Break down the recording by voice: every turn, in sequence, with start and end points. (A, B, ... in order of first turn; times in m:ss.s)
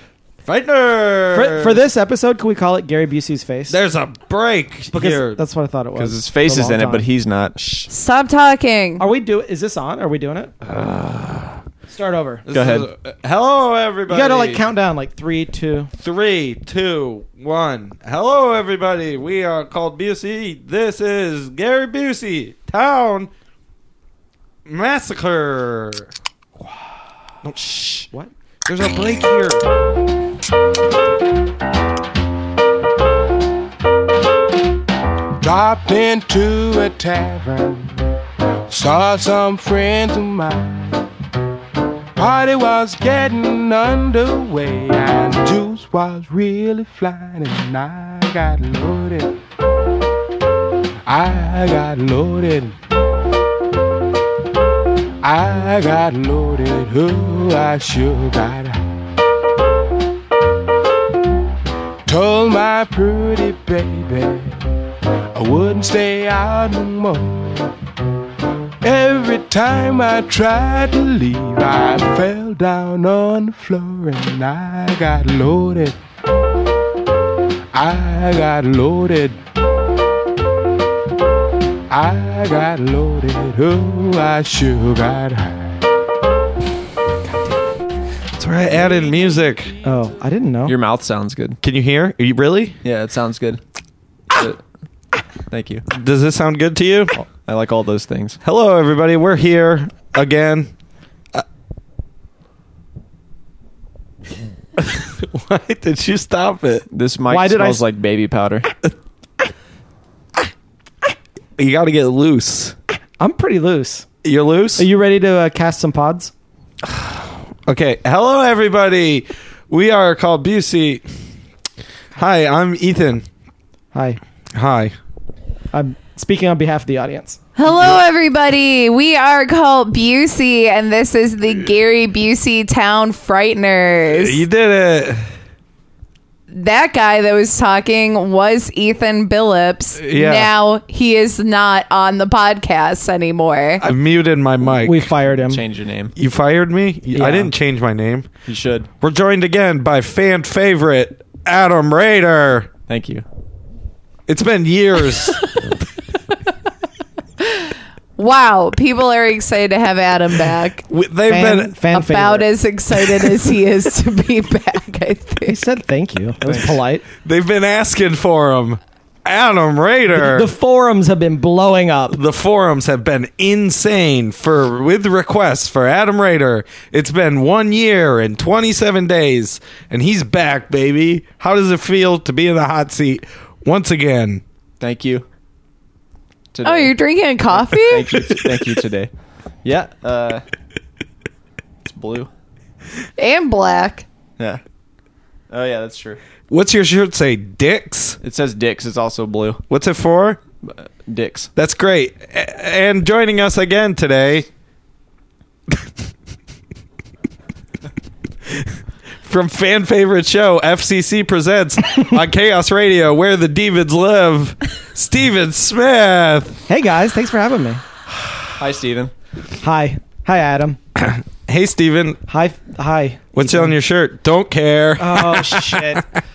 0:00.4-0:01.8 A
0:01.3-0:03.8 B
0:03.7-0:05.4 A
0:04.9-0:07.0 B
0:06.0-0:07.6 C
0:07.9-0:09.0 D
0:09.0-0:10.5 B
0:10.6-0:11.6 A
0:11.9-0:12.4 B
0:12.5-0:14.7 A
0:12.5-0:12.9 C
0:14.1-0:15.9 B
0:16.0-0:23.3 A
0:24.6-0:26.1 A
0:27.4-0:28.1 A
0:28.6-0:29.6 A
0:35.4-0:37.9 E
0:38.7-0:41.0 E
0:42.2-0:49.4 E
0:51.1-0:52.8 E
0:55.2-0:58.9 E
1:02.0-1:04.6 E
1:05.3-1:07.7 E
1:08.8-1:16.0 E
1:17.7-1:19.4 E
1:21.9-1:25.7 E
1:28.4-1:29.8 A
1:29.8-1:30.7 B
1:30.6-1:31.6 C
1:31.6-1:32.8 A
1:32.8-1:33.6 C
1:34.3-1:34.6 C
1:35.5-1:35.9 C
1:35.9-1:37.2 A
1:37.5-1:38.4 C
1:38.4-1:40.7 A
1:44.8-1:46.8 A
1:46.9-1:48.7 C
1:47.3-1:47.8 B
1:51.6-1:52.8 A
1:53.2-1:54.0 B
1:54.2-1:54.9 A
1:54.8-1:56.3 B
1:56.8-2:01.0 A
2:02.2-2:03.2 A
2:03.9-2:04.2 B
2:04.5-2:04.9 A
2:05.7-2:07.4 B
2:07.6-2:14.4 D
2:14.1-2:15.2 A
2:16.5-2:23.8 D
2:20.0-2:20.5 A
2:23.8-2:25.1 A
2:24.8-2:25.6 B
2:25.5-2:26.1 C
2:26.1-2:28.3 A
2:27.1-2:27.5 B
2:28.4-2:28.9 C
2:29.0-2:32.7 A
2:32.9-2:33.2 C
2:34.3-2:35.5 A
2:37.4-2:40.8 D
2:40.9-2:41.7 A
2:41.3-2:42.5 B
2:41.9-2:45.6 D
2:45.4-2:47.0 B
2:47.2-2:50.5 A
2:50.1-2:52.2 B
2:52.1-3:04.4 A
3:04.8-3:05.2 C
3:06.5-3:06.9 C
3:06.6-3:08.1 D
3:07.6-3:09.1 C
3:09.6-3:10.4 C
3:11.8-3:12.3 C
3:13.2-3:14.0 D
3:15.5-3:16.2 C
3:16.5-3:18.2 A
3:18.2-3:19.6 C
3:19.7-3:20.4 A
3:20.6-3:21.5 C
3:21.6-3:24.5 A
3:29.2-3:36.6 A
3:36.7-3:37.8 B
3:38.6-3:39.1 C
3:39.6-3:40.8 B
3:41.0-3:42.2 A
3:42.3-3:43.7 B
3:43.4-3:46.2 A
3:45.0-3:46.0 B